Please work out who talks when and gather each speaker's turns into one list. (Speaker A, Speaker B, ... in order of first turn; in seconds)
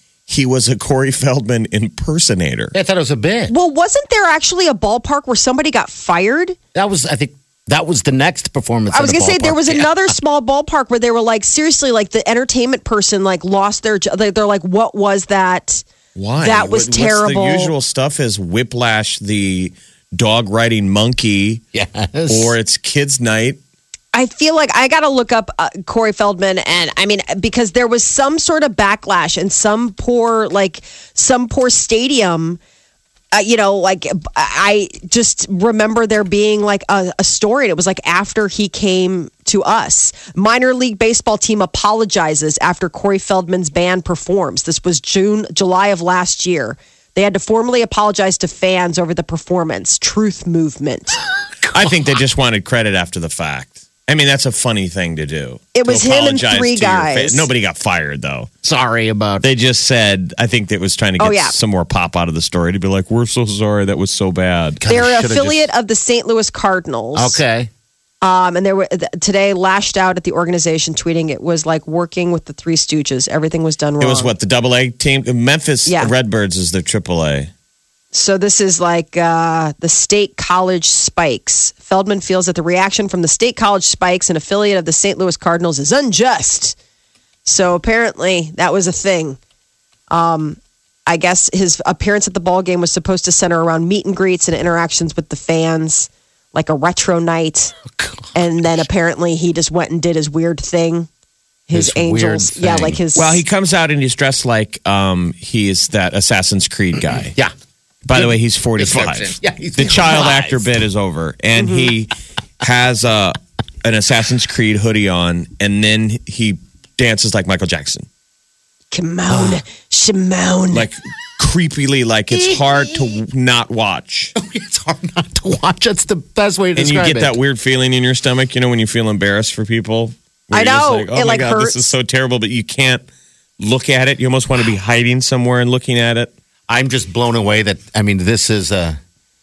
Speaker A: 0.3-2.7, 16.1-21.6, 22.3-23.6, 51.7-58.5, 59.4-64.8, 74.0-77.5, 103.1-107.3, 108.0-118.1, 120.7-124.3, 126.8-133.0, 133.6-136.3
Speaker B: 2.7-3.5, 6.7-10.1, 21.7-22.5, 58.6-59.5, 64.8-65.7, 67.1-67.7, 101.7-103.0, 108.1-110.6, 122.3-122.6, 124.3-127.3, 136.7-139.0
Speaker C: 3.5-6.5, 8.9-15.8, 16.4-17.7, 24.1-32.6, 33.3-51.2, 55.7-57.5, 61.2-61.5, 64.9-67.4, 68.2-74.3, 75.8-76.1, 78.1-86.8, 87.4-89.4, 90.1-97.7, 98.3-101.1, 101.7-103.4, 111.6-111.9, 118.9-120.9, 130.5-131.9